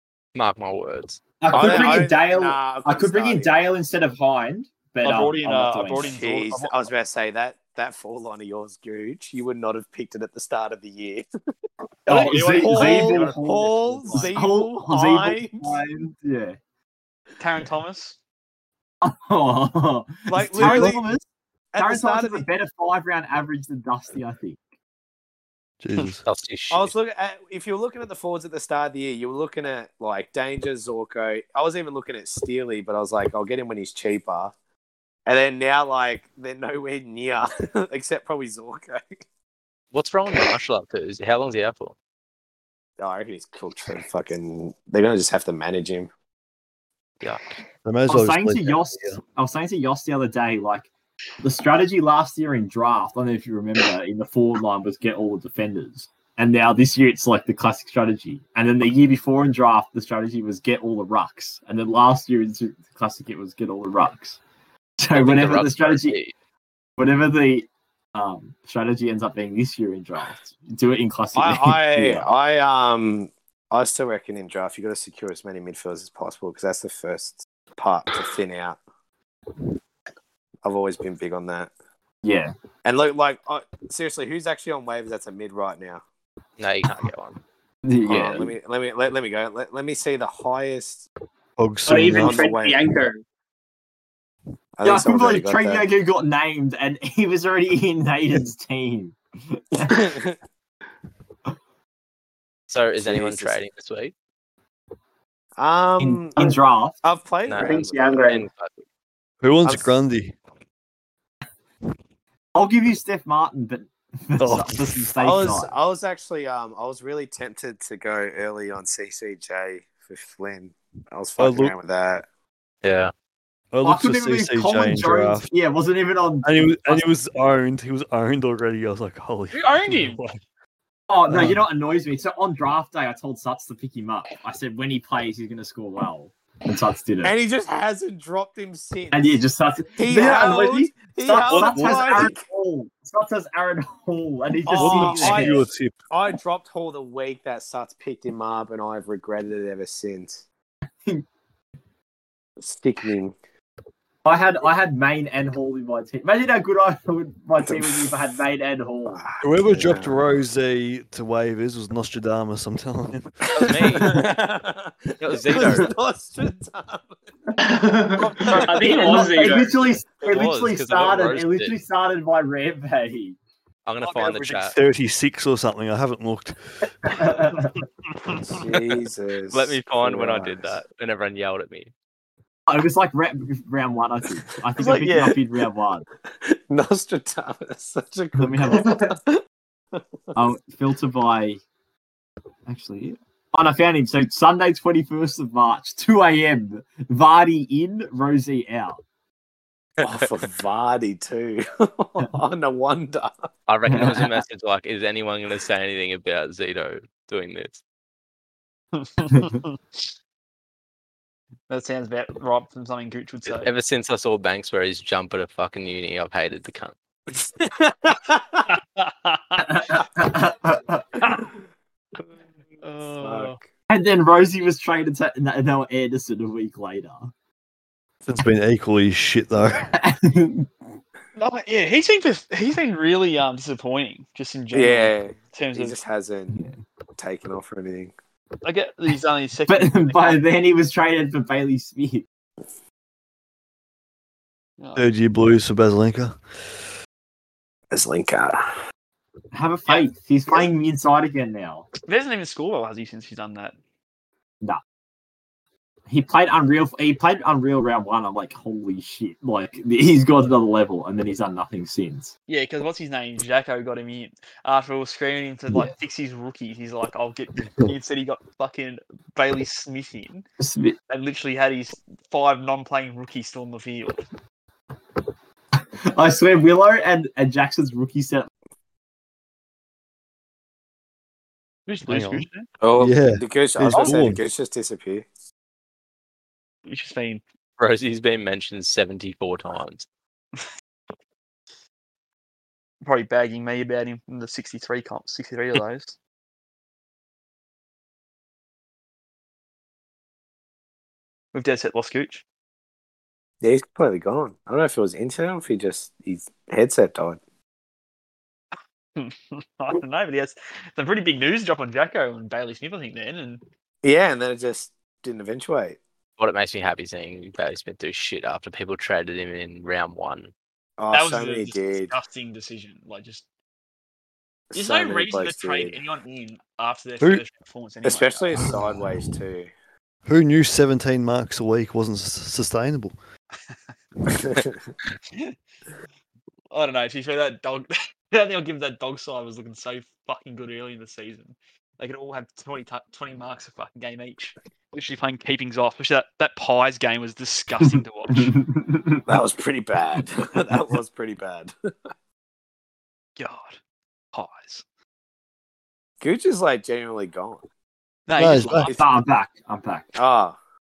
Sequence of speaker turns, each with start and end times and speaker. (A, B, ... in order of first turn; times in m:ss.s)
0:00.3-0:01.2 A
0:01.4-0:06.2 B
0:01.5-0:03.6 C
0:05.0-0:06.8 D
0:06.1-0:11.2 C
0:12.0-0:16.6 B
0:12.1-0:14.3 D
0:12.1-0:15.8 C
0:17.4-0:18.2 D
0:19.0-0:21.2 B
0:20.3-0:21.0 C
0:21.7-0:22.5 C
0:21.8-0:24.6 B
0:25.8-0:26.2 E
0:26.0-0:26.9 A
0:26.7-0:34.5 C
0:35.2-0:39.2 C
0:39.9-0:41.9 A
0:43.0-0:46.1 C
0:47.8-0:49.2 E
0:48.1-0:50.9 B
0:51.4-1:04.4 B
1:05.0-1:06.2 B
1:05.1-1:06.3 A
1:07.0-1:12.3 B
1:11.3-1:18.8 C
1:20.6-1:21.7 C
1:22.2-1:22.5 B
1:22.8-1:26.0 C
1:26.6-1:27.4 A
1:27.8-1:28.5 B
1:28.0-1:31.0 C
1:31.6-1:32.4 E
1:31.8-1:33.2 F
1:32.1-1:32.8 C
1:34.8-1:35.8 C
1:34.8-1:40.1 B
1:39.8-1:40.4 C
1:42.7-1:44.1 A
1:43.0-1:43.6 C
1:45.6-1:48.3 C
1:46.0-1:47.0 B
1:47.4-1:48.8 A
1:47.6-1:48.4 F
1:49.4-1:50.4 E
1:52.5-1:55.7 B
1:54.4-1:55.1 E
1:55.2-2:02.2 C
2:01.4-2:01.7 E
2:02.8-2:03.1 A
2:03.7-2:05.5 E
2:03.8-2:07.1 B
2:06.4-2:10.4 E
2:09.5-2:10.2 D
2:11.1-2:17.3 B
2:11.3-2:11.6 E
2:17.2-2:19.4 C
2:19.1-2:25.6 B
2:19.9-2:22.4 C
2:21.5-2:22.3 E
2:24.6-2:30.4 C
2:24.7-2:26.0 E
2:32.6-2:33.3 C
2:34.2-2:39.2 B
2:37.6-2:38.1 C
2:39.1-2:40.2 C
2:39.4-2:44.2 E
2:43.5-2:47.2 C
2:43.5-2:44.3 A
2:45.2-2:45.9 A
2:47.6-2:49.8 F
2:48.2-2:49.2 D
2:48.6-2:53.4 B
2:50.2-2:51.8 A
2:53.8-2:54.8 A
2:54.0-2:54.7 D
2:54.6-2:57.1 E
2:57.0-2:57.7 B
2:58.3-3:00.8 C
2:59.5-3:01.9 A
3:02.7-3:06.1 B
3:04.8-3:05.2 C
3:06.4-3:09.4 C
3:08.4-3:09.1 B
3:10.3-3:11.6 B
3:12.7-3:19.0 B
3:20.0-3:23.3 C
3:23.7-3:27.8 A
3:23.9-3:24.4 B
3:29.0-3:30.0 D
3:31.7-3:33.7 D
3:33.4-3:36.9 A
3:37.3-3:38.6 C
3:39.0-3:39.6 D
3:39.6-3:41.5 B
3:42.8-3:43.6 D
3:43.1-3:43.6 C
3:43.9-3:47.3 B
3:48.2-3:49.9 E
3:49.8-3:50.7 B
3:51.3-3:56.0 D
3:54.7-3:56.6 C
3:56.5-3:56.8 B
3:57.2-3:58.1 C
3:58.6-4:00.4 D
3:59.7-4:02.2 B
4:04.8-4:05.0 D
4:04.9-4:06.4 E
4:07.9-4:08.6 C
4:09.5-4:11.9 B
4:12.0-4:13.7 D
4:16.1-4:22.3 B
4:22.5-4:30.4 D
4:30.6-4:31.0 B
4:31.1-4:34.2 D
4:35.8-4:38.5 B
4:41.9-4:42.7 D
4:42.1-4:44.4 E
4:42.8-4:45.2 C
4:46.8-4:47.4 D
4:47.8-4:50.0 A
4:53.0-4:56.2 D
5:01.5-5:02.4 D
5:03.6-5:07.4 C
5:09.2-5:13.6 D
5:14.0-5:16.0 C
5:16.4-5:20.5 A
5:21.0-5:22.1 C
5:21.1-5:23.4 D
5:24.7-5:26.0 C
5:24.7-5:28.7 D
5:28.0-5:29.7 C
5:30.2-5:33.2 E
5:34.4-5:34.7 C
5:36.7-5:48.6 D
5:47.8-5:49.4 B
5:49.3-5:51.7 C
5:53.4-5:53.8 D
5:54.3-5:54.8 D
5:56.2-5:57.6 C
5:58.3-5:58.9 D
5:58.4-5:58.9 E
5:58.9-6:00.2 B
6:00.2-6:00.6 C